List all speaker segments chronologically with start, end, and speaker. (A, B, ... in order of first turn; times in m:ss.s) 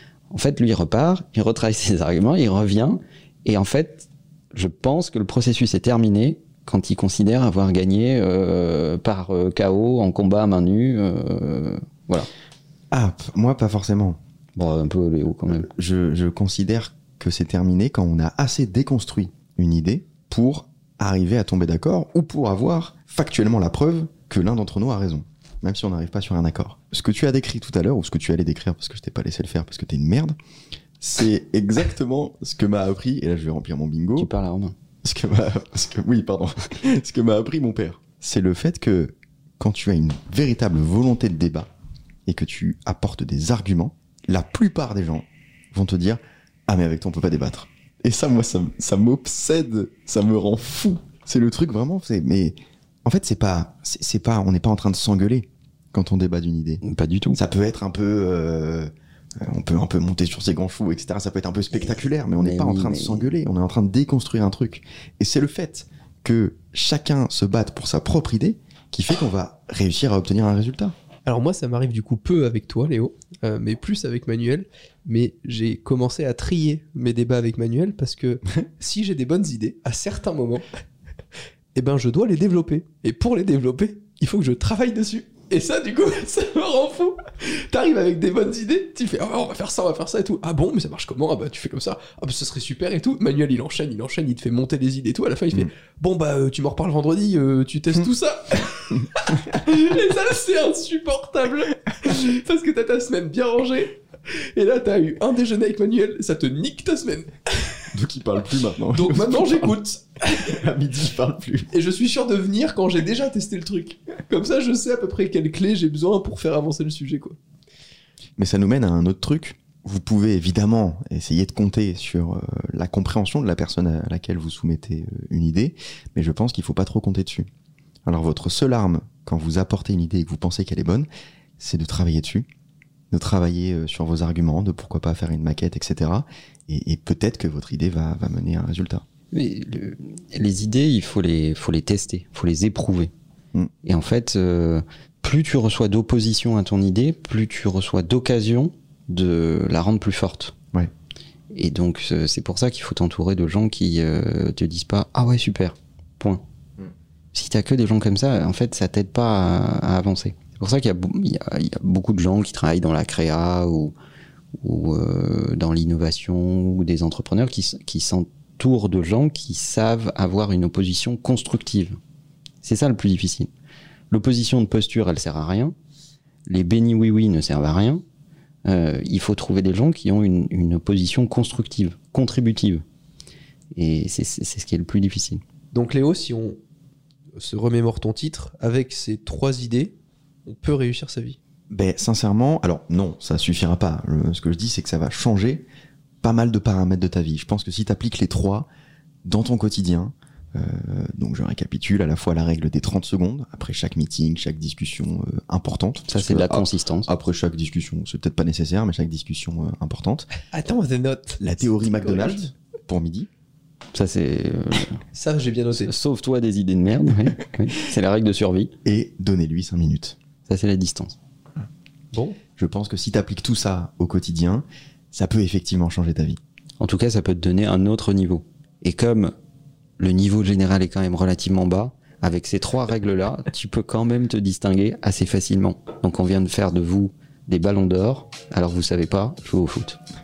0:00.3-0:12.3 A
0:12.9-0:14.2 B
0:14.6-0:15.7 A
0:15.6-0:30.3 B
0:31.0-0:34.3 B
0:34.2-0:34.7 A
0:35.0-0:41.7 B
0:42.2-0:56.8 B
0:56.8-0:57.4 A
0:57.3-1:10.9 B
1:02.4-1:03.3 A
1:11.2-1:20.6 C
1:21.7-1:47.9 C
1:47.9-1:49.7 B
1:48.9-1:50.6 C
1:50.3-1:51.7 B
1:51.7-1:57.4 C
1:58.4-2:07.5 B
2:08.0-2:11.1 B
2:11.6-2:12.5 B
2:13.1-2:19.0 B
2:19.3-2:23.1 A
2:23.8-2:30.5 A
2:31.5-2:36.4 A
2:37.3-2:43.9 A
2:44.6-2:52.0 A
2:52.6-2:53.5 A
2:54.1-2:55.7 A
2:56.4-2:58.0 A
2:58.6-3:02.8 A
3:03.7-3:05.4 A
3:05.7-3:06.6 C
3:07.4-3:09.9 C
3:10.4-3:11.4 C
3:11.7-3:15.6 B
3:16.2-3:18.7 B
3:19.2-3:30.3 B
3:26.1-3:27.1 A
3:30.5-3:32.4 C
3:31.4-3:33.3 B
3:33.9-3:35.0 A
3:35.1-3:35.9 C
3:35.8-3:38.7 A
3:38.8-3:40.2 B
3:40.5-3:41.1 A
3:42.1-3:42.4 C
3:42.6-3:46.4 B
3:46.8-3:49.3 A
3:50.0-4:00.0 A